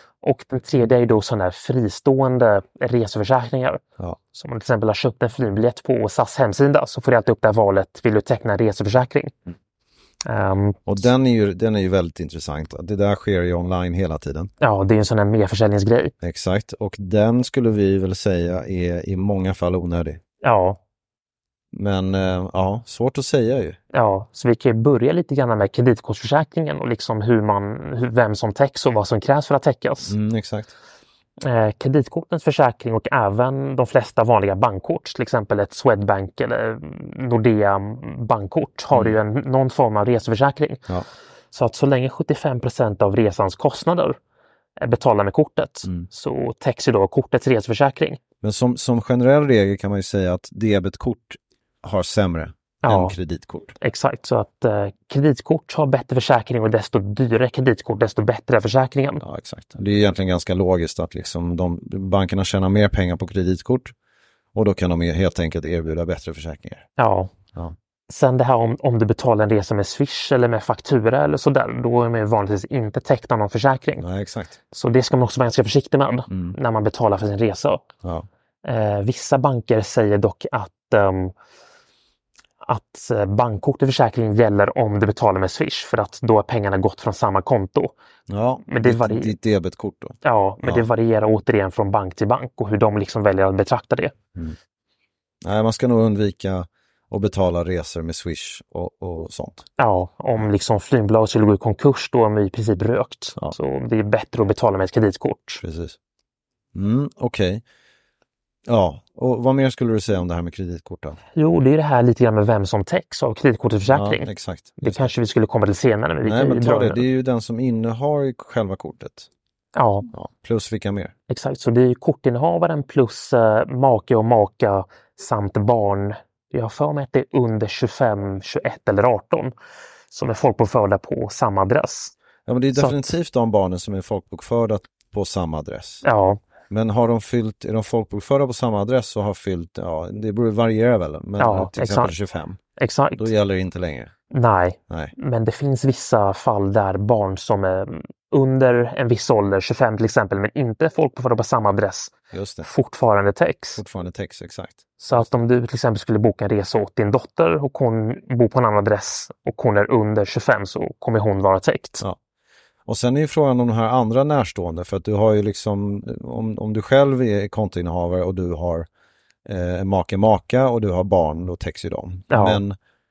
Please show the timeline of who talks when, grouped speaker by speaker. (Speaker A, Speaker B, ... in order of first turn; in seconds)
Speaker A: 0.2-3.8, 4.3-9.3, 10.2-10.9, 14.6-16.1, 20.4-20.8, 23.9-30.1, 31.4-40.8, 41.5-44.2, 44.8-48.2, 52.8-53.2, 53.8-59.2, 67.0-67.3, 68.1-74.0, 74.7-77.8, 78.6-81.3, 82.6-87.9, 88.7-89.3, 90.2-94.1, 99.8-105.6, 111.4-114.3, 114.8-117.0, 119.8-120.1, 121.3-129.5, 130.1-132.2, 132.7-133.1, 136.0-136.4, 141.4-142.1, 142.8-143.3, 144.3-152.1, 152.6-153.8, 155.0-162.0, 172.3-172.6
Speaker B: 10.9-14.5, 16.2-20.2, 21.7-23.8, 30.1-30.7, 48.4-53.8, 59.2-63.9, 64.5-66.9, 74.0-74.6, 76.3-76.6, 88.3-90.9, 95.4-99.7, 105.6-106.0, 106.7-107.6, 108.7-111.2, 113.9-115.1, 116.2-119.3, 120.1-121.1, 132.5-136.0, 136.7-142.6, 143.2-144.1, 152.3-152.7, 153.8-155.3, 162.9-168.9, 169.4-172.8